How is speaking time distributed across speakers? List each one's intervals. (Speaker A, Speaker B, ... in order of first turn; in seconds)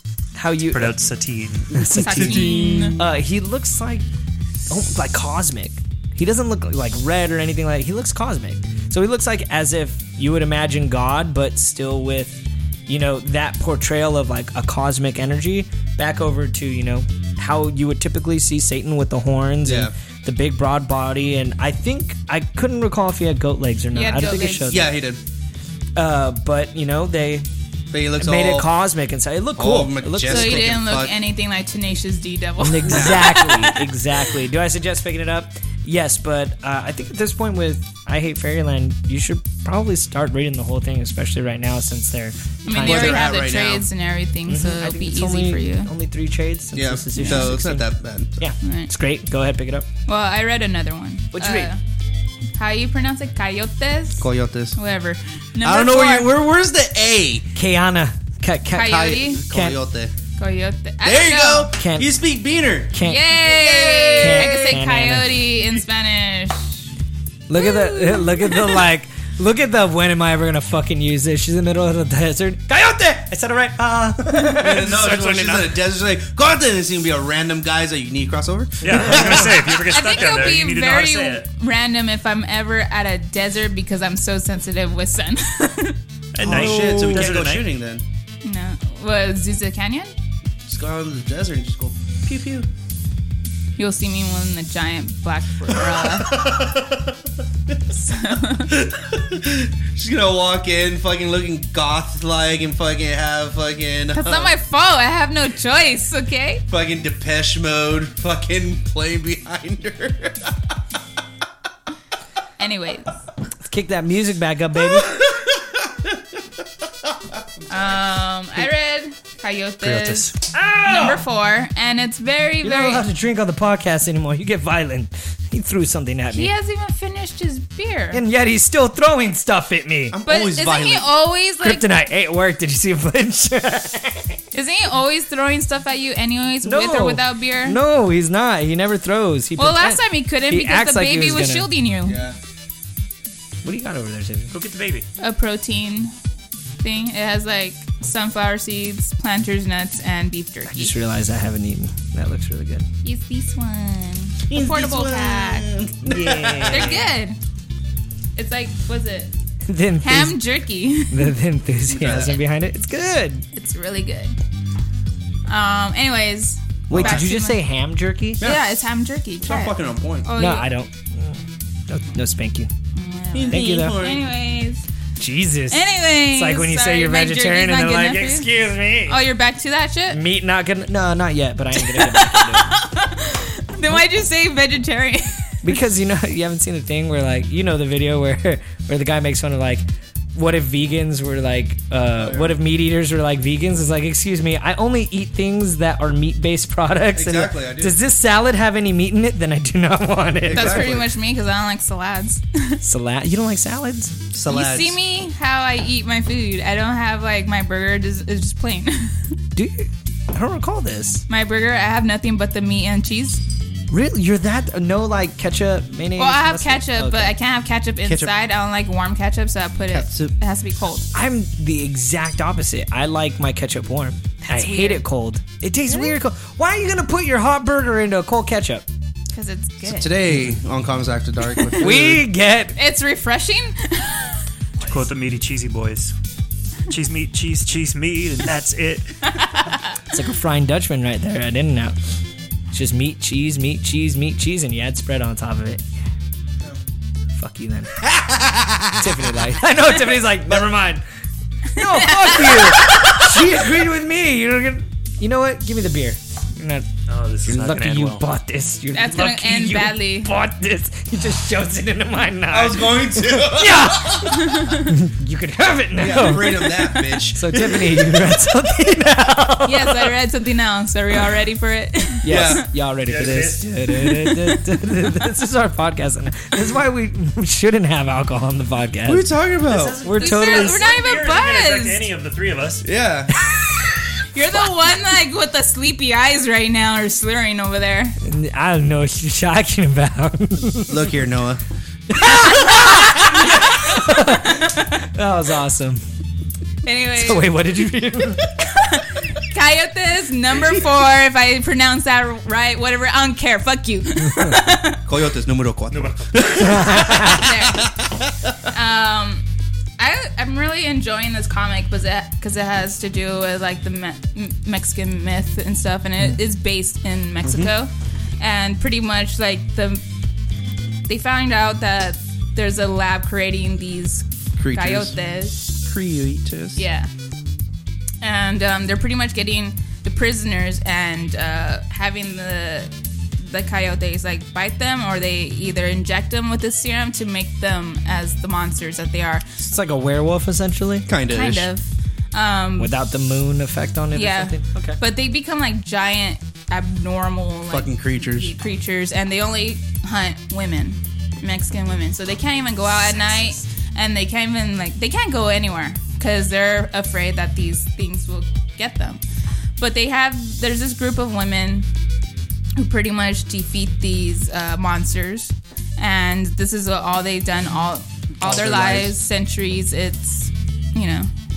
Speaker A: 0.3-1.0, 1.7-4.0, 4.7-24.9, 26.0-27.5, 28.2-30.8, 32.6-43.3, 44.5-47.9, 48.4-49.9, 51.3-51.7, 57.5-59.8, 61.8-62.1, 62.9-63.2, 64.2-65.4, 67.5-75.6, 78.9-79.6, 86.5-87.3, 113.7-115.1, 120.5-121.2, 122.6-126.5, 128.1-130.2, 131.6-134.4, 136.6-141.7, 143.6-144.5, 150.7-152.9, 156.0-157.1, 159.7-160.4, 161.1-163.4, 166.9-168.4, 170.4-172.7, 173.5-174.0, 175.2-179.2, 180.1-182.7, 185.6-201.0, 202.8-204.2, 209.6-211.2, 213.9-217.3, 221.1-228.8, 231.8-232.8, 240.1-242.0, 242.7-245.9, 247.3-248.0, 249.0-251.0, 251.7-256.9, 257.4-270.1, 272.2-279.3, 280.0-280.8, 288.2-291.1, 292.1-296.0, 297.2-298.6, 306.6-307.4, 339.6-341.1, 342.8-345.0
Speaker B: 0.7-1.8, 78.8-81.5, 86.3-87.7, 119.8-120.3, 144.5-145.1, 234.8-236.1, 236.9-239.2, 257.1-258.2, 273.1-273.6, 279.6-282.8, 305.9-306.6
Speaker C: 1.9-3.0, 23.9-24.9, 30.2-34.0, 42.7-45.9, 47.2-47.5, 48.6-48.9, 50.1-51.8, 52.6-56.3, 58.8-59.4, 60.4-61.7, 63.0-66.8, 67.5-68.8, 79.8-86.0, 88.4-90.1, 93.8-96.5, 97.9-98.8, 104.1-106.6, 112.6-113.1, 117.7-120.3, 120.8-123.0, 126.3-128.2, 130.3-131.8, 134.5-137.8, 139.6-142.2, 145.2-146.1, 146.8-150.9, 153.0-155.7, 156.7-157.4, 158.4-159.3, 160.0-161.3, 163.5-164.4, 165.5-167.6, 168.4-170.7, 172.9-174.8, 175.7-178.5, 179.1-180.2, 181.8-185.8, 200.5-202.8, 204.5-209.4, 211.3-213.4, 216.2-221.1, 224.4-225.0, 225.9-226.1, 229.3-230.2, 232.8-234.4, 239.3-239.8, 251.8-253.2, 258.9-260.3, 264.4-264.9, 269.6-272.6, 273.9-274.6, 280.2-282.1, 284.3-288.2, 292.2-294.9, 296.8-297.5, 298.6-305.0, 307.1-308.0, 308.6-309.4, 310.0-320.0, 321.1-325.7, 326.8-327.1, 328.2-339.4, 341.3-342.9, 344.1-359.2, 359.8-361.9, 362.8-371.3
Speaker D: 2.0-3.1, 19.6-19.9, 24.7-25.2, 27.9-28.7, 29.6-31.2, 32.8-33.3, 42.7-43.9, 46.8-48.5, 54.2-54.8, 55.6-57.5, 58.8-60.1, 61.0-64.7, 74.6-79.9, 86.4-88.0, 90.7-92.7, 95.7-97.2, 98.7-104.5, 106.7-110.6, 114.9-116.3, 117.1-117.4, 130.1-131.1, 142.1-142.4, 154.5-157.1, 161.9-162.3, 166.9-167.3, 168.4-168.7, 169.4-170.3, 173.3-174.3, 192.2-192.6, 197.2-198.0, 200.4-201.1, 204.3-205.0, 218.1-218.3, 219.9-220.3, 229.8-232.3, 248.0-249.2, 262.5-264.4, 266.0-268.4, 272.3-272.6, 279.1-280.0, 282.8-283.3, 290.9-291.6, 305.1-308.2, 317.4-317.7, 324.6-325.2, 325.8-326.8, 341.1-341.7, 347.7-348.5, 368.4-369.1